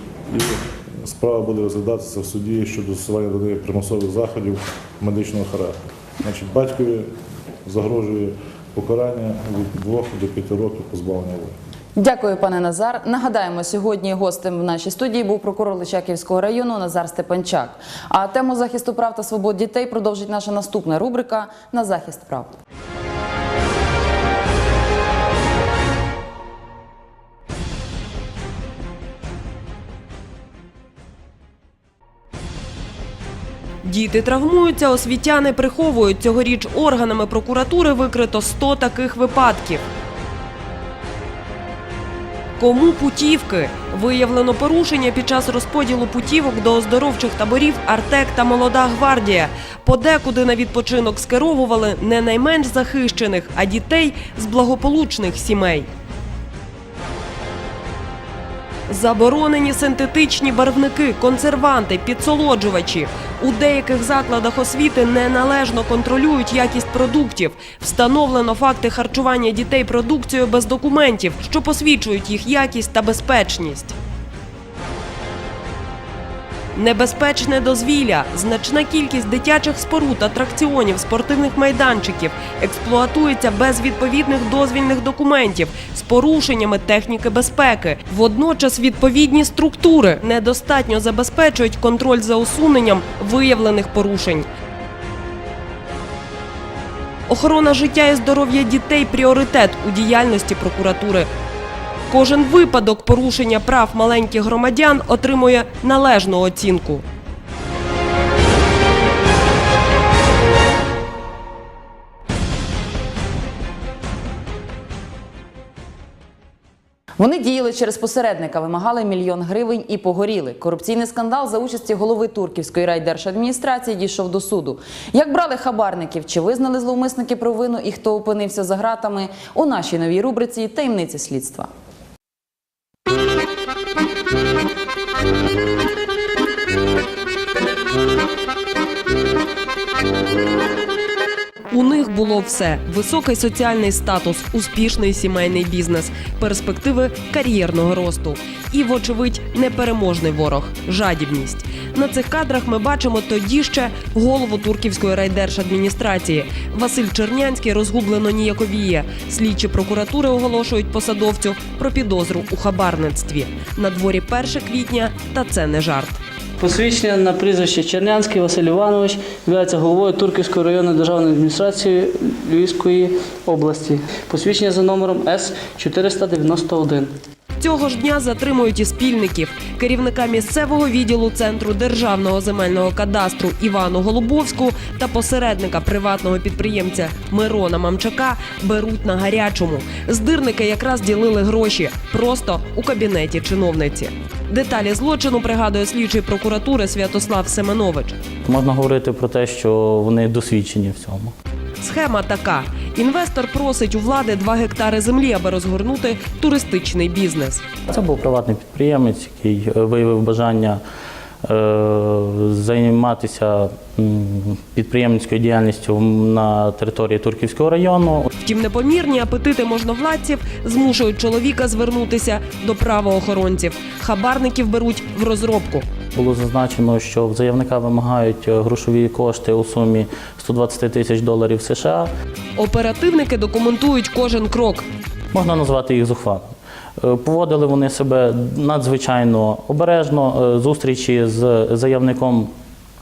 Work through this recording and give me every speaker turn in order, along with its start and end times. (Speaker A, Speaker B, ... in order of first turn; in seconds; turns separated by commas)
Speaker A: 0.3-7.1, Speaker A: 7.7-11.6, Speaker B: 12.0-22.6, Speaker C: 33.8-39.8, Speaker C: 42.6-55.9, Speaker C: 58.9-74.0, Speaker C: 76.8-94.5, Speaker C: 97.3-101.3, Speaker C: 102.1-107.0, Speaker B: 117.2-131.7, Speaker C: 141.7-166.2, Speaker D: 166.6-177.1, Speaker C: 177.6-198.2, Speaker E: 198.5-201.3, Speaker C: 201.8-207.6, Speaker E: 207.9-210.8, Speaker E: 211.4-218.3, Speaker C: 218.4-225.9, Speaker E: 226.2-232.1, Speaker C: 232.6-234.9, Speaker E: 235.3-236.4, Speaker E: 237.0-242.5